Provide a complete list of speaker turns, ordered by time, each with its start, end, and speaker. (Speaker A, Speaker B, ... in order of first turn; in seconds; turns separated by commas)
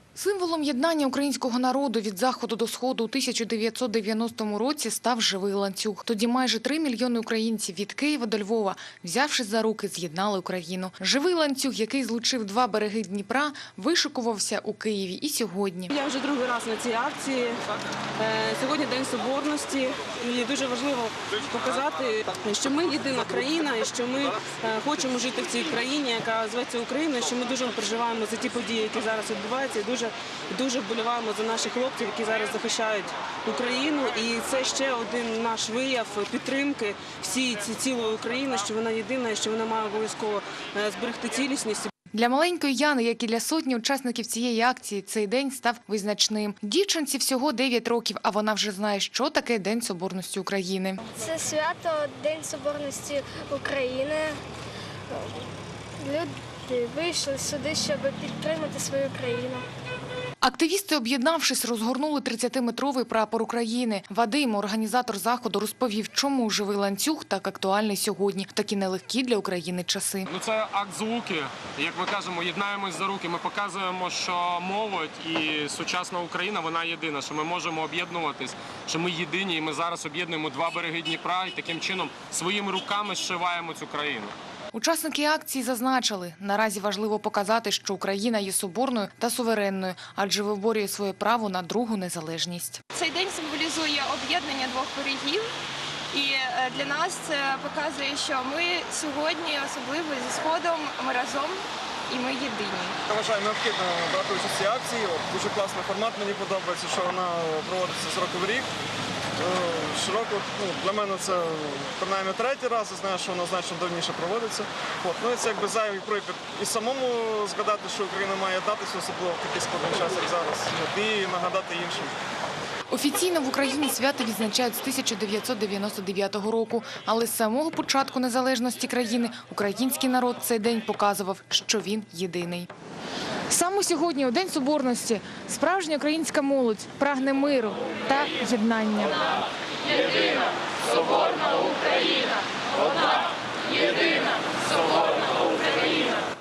Speaker A: 0.1-15.9, Speaker B: 15.9-17.6, Speaker B: 18.2-41.9, Speaker A: 42.1-51.0, Speaker C: 51.2-54.3, Speaker C: 55.1-55.4, Speaker C: 56.0-59.6, Speaker A: 60.4-70.3, Speaker D: 70.3-84.3, Speaker A: 84.7-92.8, Speaker E: 92.9-95.5, Speaker E: 96.1-103.0, Speaker F: 103.1-108.7, Speaker F: 109.4-122.1, Speaker A: 122.9-132.7, Speaker A: 133.5-139.3